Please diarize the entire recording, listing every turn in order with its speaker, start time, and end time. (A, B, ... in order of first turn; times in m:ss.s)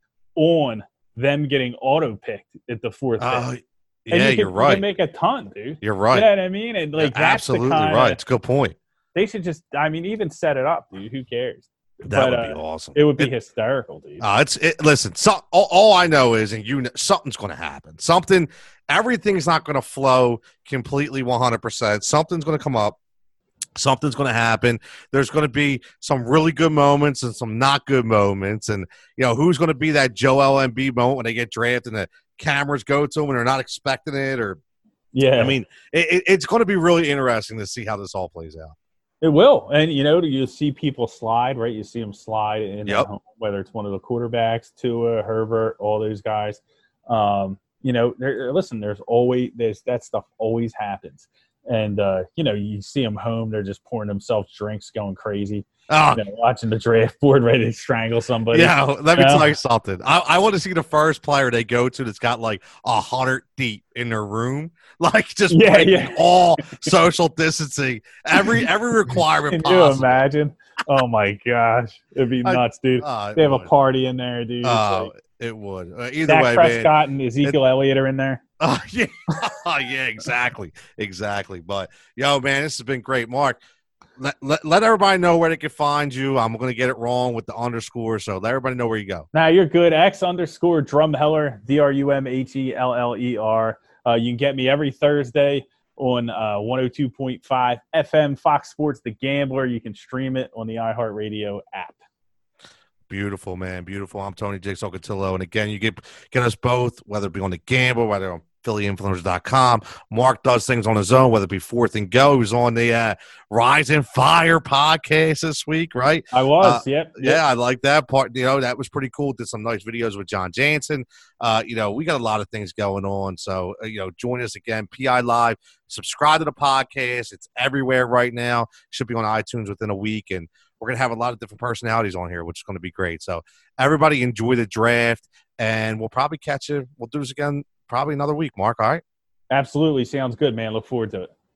0:00.4-0:03.5 A
0:03.2-0:04.8 B
0:04.1-0:08.2 A
0:05.8-0:06.3 B
0:07.0-0:08.8 B
0:09.1-0:14.2 A
0:12.1-0:13.3 B
0:14.2-0:23.0 B
0:23.8-0:34.6 B
0:35.1-0:35.6 A
0:35.3-0:38.7 B
0:39.2-0:59.5 A
0:55.9-0:56.2 B
0:58.5-1:10.2 B
1:05.5-1:06.9 A
1:08.4-1:15.1 A
1:12.4-1:13.7 B
1:14.6-1:16.9 B
1:16.3-1:18.4 A
1:18.6-1:23.6 B
1:24.2-1:29.3 B
1:29.3-1:42.0 A
1:43.1-2:19.0 B
1:56.3-1:57.4 A
2:19.5-2:21.3 A